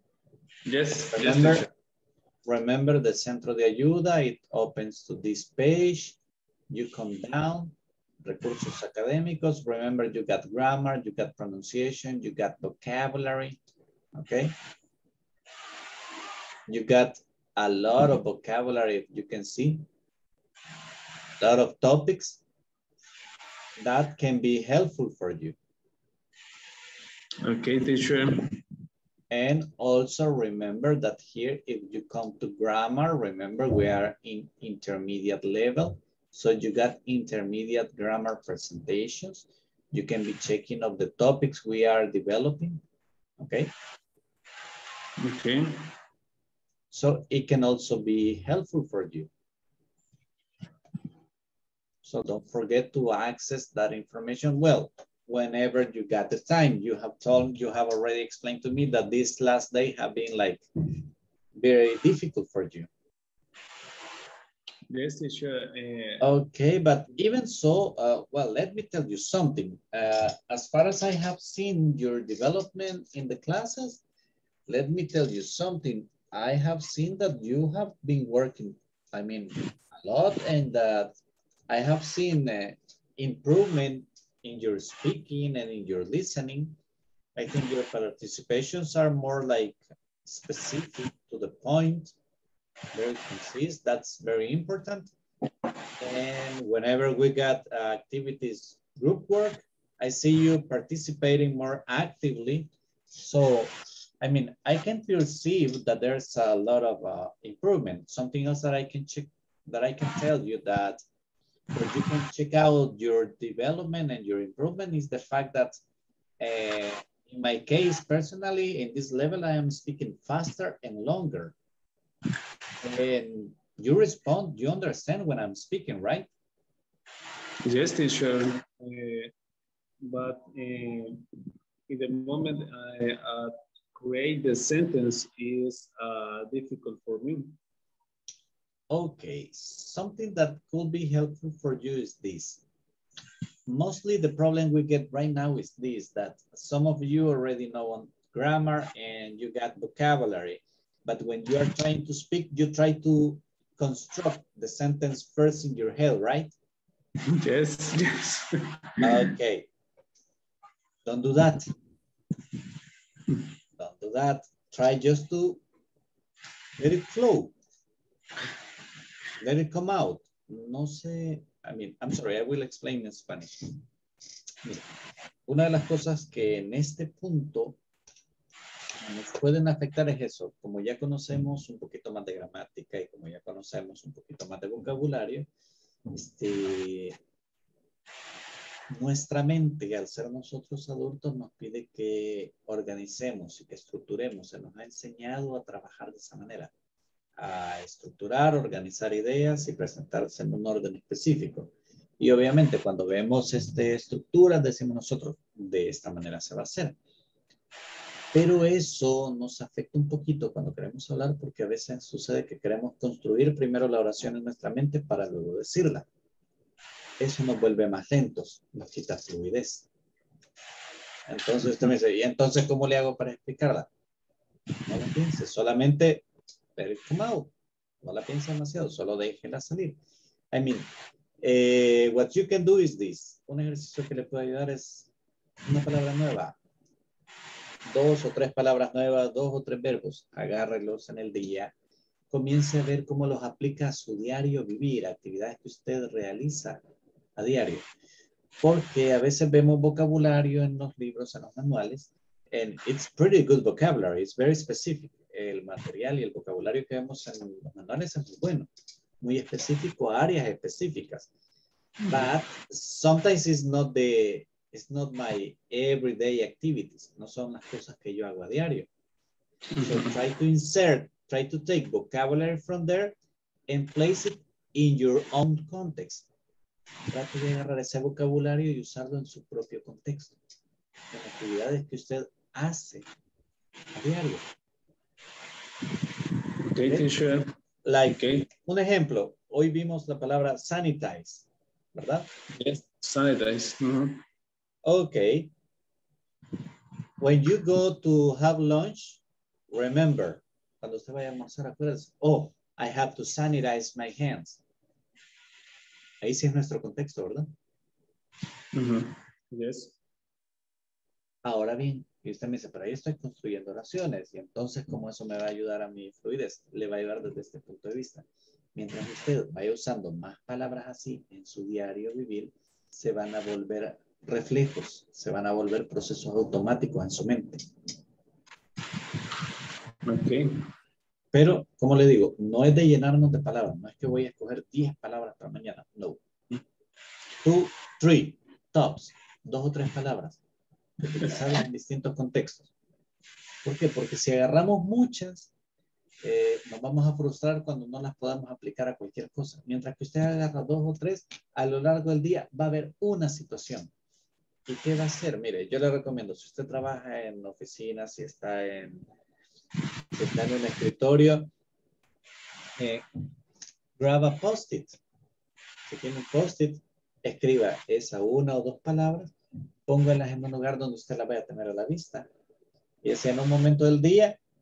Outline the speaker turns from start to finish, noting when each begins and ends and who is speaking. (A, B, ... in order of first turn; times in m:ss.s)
0:00.7-0:01.7 A
0:01.1-0:01.7 B
0:02.4-0:06.2 B
0:06.7-0:13.6 B
0:14.1-0:14.6 B
0:16.7-0:19.8 B
0:21.4-0:22.4 B
0:23.8-0:25.6 B
0:27.4-0:28.6 A
0:29.3-0:42.8 B
0:43.4-0:43.7 B
0:45.2-0:45.9 A
0:46.9-0:49.3 B
0:52.0-1:00.6 B
1:01.6-1:02.9 B
1:04.9-1:06.3 A
1:06.2-1:14.0 B
1:14.7-1:21.2 B
1:21.7-1:26.8 B
1:27.4-1:32.2 B
1:32.9-1:35.1 B
1:36.0-1:51.0 B
1:51.7-1:55.8 B
1:56.4-2:01.6 B
2:02.8-2:06.3 B
2:07.6-2:09.3 A
2:10.1-2:11.2 A
2:11.9-2:17.5 A
2:18.9-2:22.6 B
2:23.6-2:36.5 B
2:37.2-2:39.3 A
2:39.0-2:39.7 B
2:41.0-2:41.7 B
2:43.8-2:45.6 B
2:46.8-2:47.6 B
2:49.4-2:53.8 B
2:54.6-2:54.9 B
2:55.5-2:57.8 B
2:59.0-3:05.5 B
3:06.1-3:07.2 B
3:08.9-3:16.7 B
3:17.4-3:27.0 B
3:28.3-3:36.1 B
3:37.2-3:39.9 B
3:41.3-3:43.9 B
3:44.8-3:50.0 B
3:50.5-3:55.1 B
3:55.6-3:56.6 B
3:57.8-4:01.7 B
4:02.3-4:06.8 B
4:07.4-4:07.9 B
4:08.6-4:18.7 B
4:19.2-4:21.3 B
4:22.1-4:28.9 B
4:29.7-4:30.2 A
4:29.8-4:33.2 B
4:33.7-4:36.3 B
4:37.1-4:40.4 B
4:41.1-4:43.1 B
4:43.9-4:44.5 B
4:46.6-4:47.5 A
4:46.8-4:47.1 B
4:47.8-4:52.3 B
4:48.2-4:48.4 A
4:52.6-4:54.2 A
4:54.8-4:55.5 B
4:57.2-5:04.6 B
5:06.2-5:07.5 B
5:08.7-5:09.9 A
5:11.4-5:27.7 B
5:30.0-5:30.6 A
5:31.3-5:36.2 B
5:37.4-5:40.4 B
5:41.0-5:42.7 B
5:43.6-5:45.5 B
5:46.2-5:53.9 B
5:54.7-5:59.1 B
6:00.1-6:01.5 B
6:02.8-6:03.1 B
6:04.0-6:05.0 B
6:05.8-6:09.3 B
6:09.8-6:12.3 B
6:13.0-6:14.4 B